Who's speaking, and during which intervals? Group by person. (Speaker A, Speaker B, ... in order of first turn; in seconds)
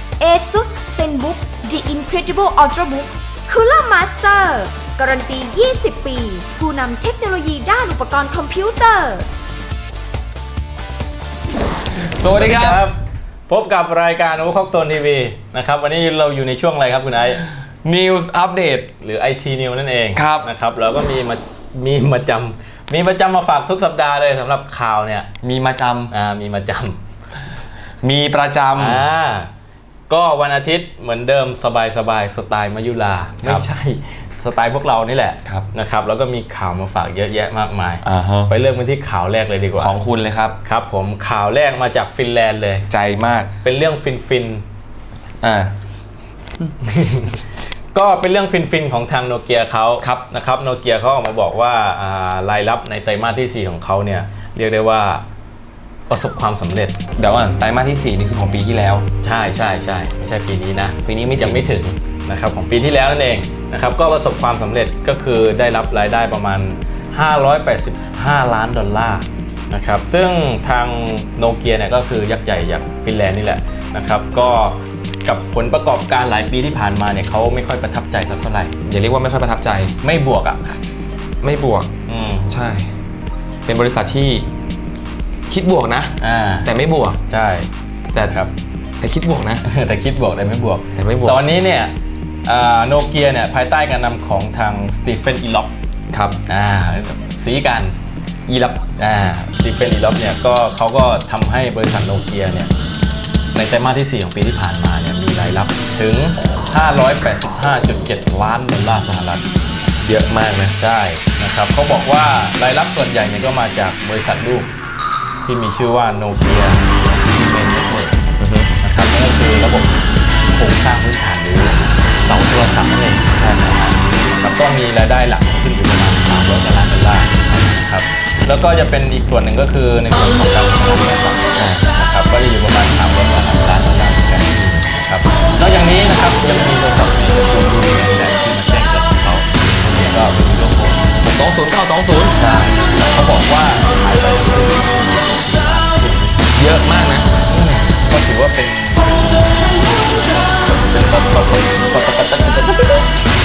Speaker A: 0.2-9.3
Speaker B: 11.9-12.8, 17.6-18.9, 20.1-20.5, 25.4-26.1, 28.0-29.0, 38.0-38.5, 39.8-40.6, 42.9-43.5, 45.4-45.7, 50.0-50.3, 57.2-59.0, 61.0-61.7, 78.8-79.9, 81.4-81.9, 82.5-82.9, 83.7-84.5, 85.5-87.2, 89.0-89.6, 91.0-91.4, 96.1-96.4, 98.5-98.8, 110.0-110.8, 118.4-118.7, 123.3-123.7, 131.6-131.9, 134.5-134.8, 141.2-142.4, 146.6-147.3
Speaker C: 12.3-17.4, 19.0-25.3, 26.1-27.0, 28.8-29.5, 30.1-40.0, 40.6-42.9, 43.6-44.6, 46.8-47.4, 47.9-55.2, 56.1-57.0, 59.2-78.8, 80.0-80.8, 82.1-82.5, 86.2-86.7, 87.3-87.7, 88.3-88.5, 89.7-91.9, 92.5-95.7, 96.5-98.0, 99.0-102.7, 103.5-109.5, 110.8-114.7, 115.4-118.2, 118.8-141.1, 142.3-146.4, 147.5-153.1